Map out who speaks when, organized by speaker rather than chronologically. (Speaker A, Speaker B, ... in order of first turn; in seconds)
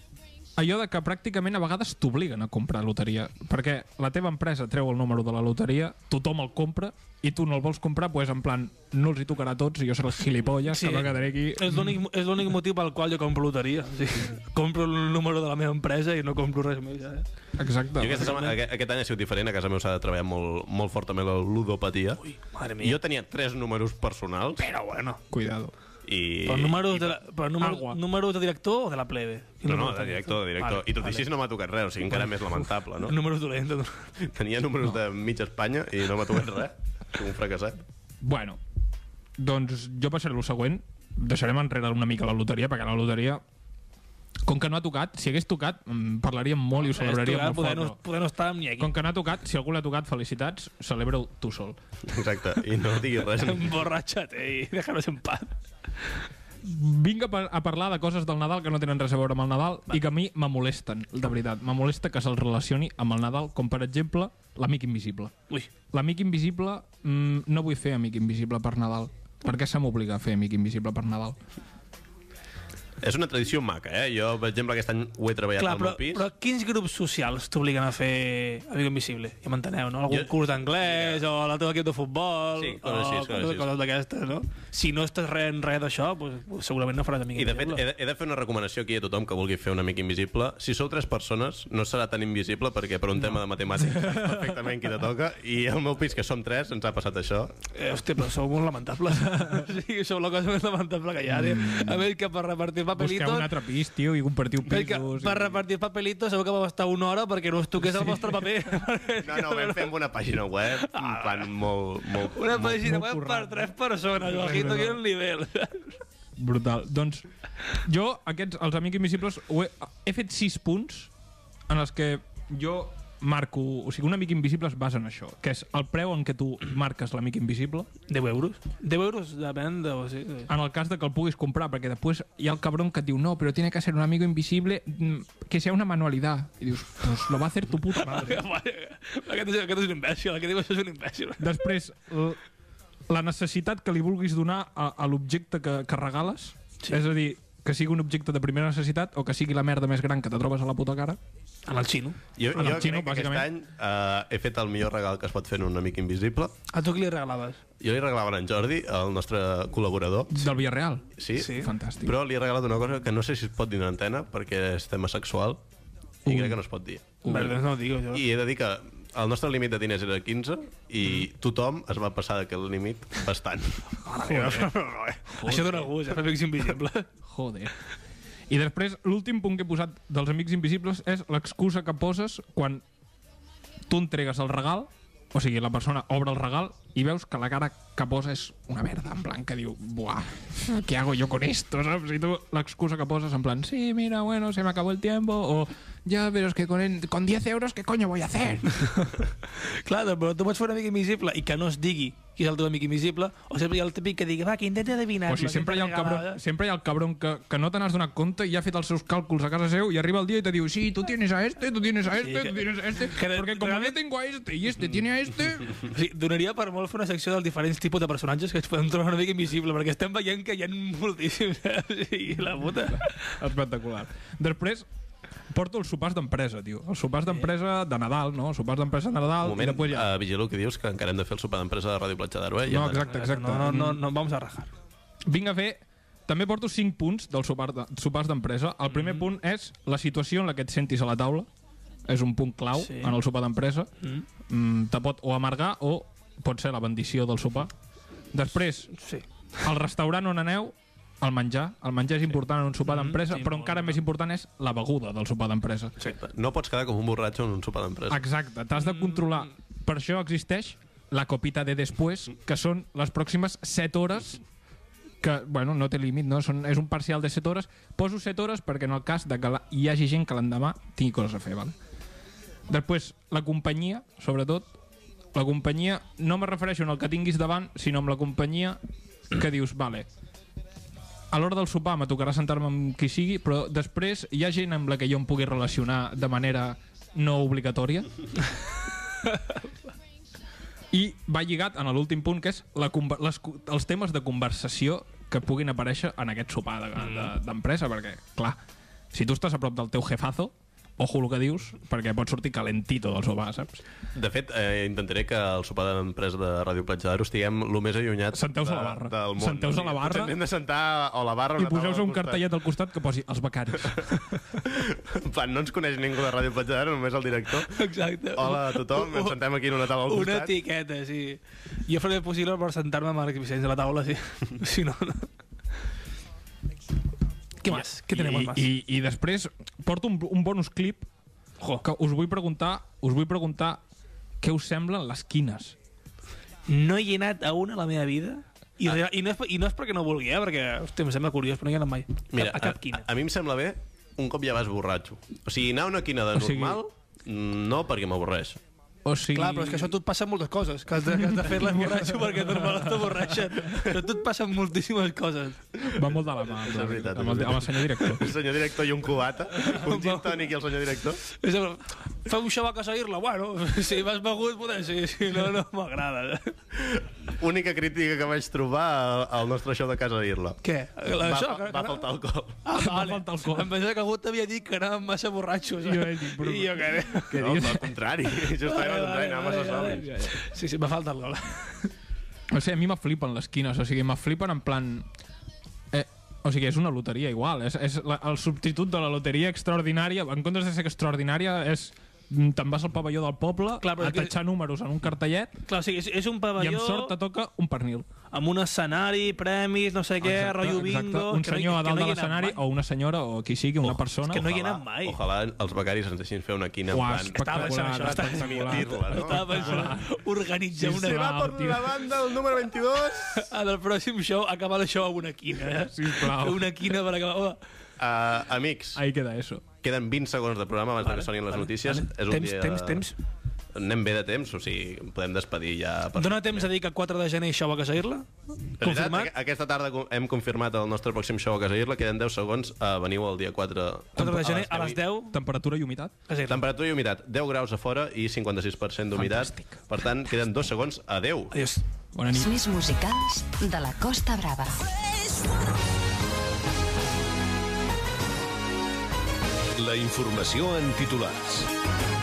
Speaker A: 0.6-12.0, 17.6-18.4, 25.3-25.7, 27.6-28.0, 38.2-38.6, 39.4-43.4, 44.5-48.0, 48.8-51.8, 56.6-65.3, 65.9-71.4, 101.3-102.0, 103.0-105.6, 107.8-108.3, 112.6-115.0, 116.4-121.1, 121.7-127.9, 130.5-138.4, 141.4-142.4, 143.1-151.2, 152.6-153.5, 160.3-162.2, 166.2-166.6, 167.2-167.6, 174.3-174.6, 175.3-175.9, 177.3-177.8, 178.5-182.8, 183.9-199.1, 205.3-215.8, 223.0-224.8, 225.5-230.1, 232.7-234.0, 235.3-241.5, 242.1-243.9, 244.5-247.7, 248.3-248.9, 249.6-255.9, 258.1-264.4, 265.2-271.7, 272.7-274.6, 275.3-278.8, 279.3-280.1, 281.3-288.1, 290.9-298.6, 299.1-303.8, 308.3-310.3, 311.6-314.1, 327.7-331.1, 331.8-333.8, 334.4-335.8, 346.4-346.8, 349.0-349.9, 351.9-353.2, 355.9-358.3, 372.7-373.7, 375.8-377.9, 382.5-385.0, 385.9-395.5, 396.6-398.1, 400.2-404.4, 406.9-410.1, 410.8-411.9, 415.9-417.0, 418.9-419.6, 434.2-434.6, 435.3-436.1, 439.2-439.6, 442.1-442.6
Speaker B: 10.7-17.2, 22.2-23.0, 24.6-25.2, 26.5-31.3, 32.1-34.1, 46.7-48.9, 53.4-55.5, 75.6-87.8, 97.7-103.5, 104.7-109.9, 110.7-111.5, 112.1-116.0, 128.1-130.5, 137.9-141.5, 151.7-152.8, 156.7-157.6, 161.3-161.7, 167.2-168.2, 174.0-177.1, 198.9-206.4, 212.2-214.0, 215.8-223.4, 233.0-234.7, 238.9-239.2, 242.7-243.2, 248.9-249.2, 252.8-254.0, 258.8-259.5, 297.0-297.3, 317.7-319.4, 320.0-325.3, 327.6-328.7, 336.7-343.0, 349.3-355.6, 359.5-360.5, 361.2-366.6, 370.6-372.1, 372.6-377.4, 378.5-381.9, 393.8-394.3, 395.7-397.2, 398.3-402.6, 403.9-405.2, 407.3-411.4, 413.3-417.6, 421.0-423.1, 426.1-429.3, 434.2-435.4, 436.3-436.6, 441.5-441.8
Speaker C: 18.0-22.2, 22.8-24.7, 26.0-27.2, 29.6-33.1, 34.2-37.8, 52.0-53.7, 73.0-76.3, 80.1-81.2, 82.5-83.7, 87.3-97.5, 109.2-112.7, 152.4-156.5, 157.8-160.4, 161.2-165.6, 166.2-167.3, 168.1-174.5, 229.4-233.1, 256.0-258.2, 304.1-312.4, 314.6-317.8, 318.3-320.6, 342.3-348.6, 355.8-361.2, 366.8-372.6, 377.3-380.1, 404.2-408.0, 408.6-409.9, 410.8-413.5, 418.0-419.0, 419.8-423.0, 423.7-426.7, 428.8-435.0, 436.5-441.6
Speaker D: 442.3-444.9
Speaker E: 449.8-451.7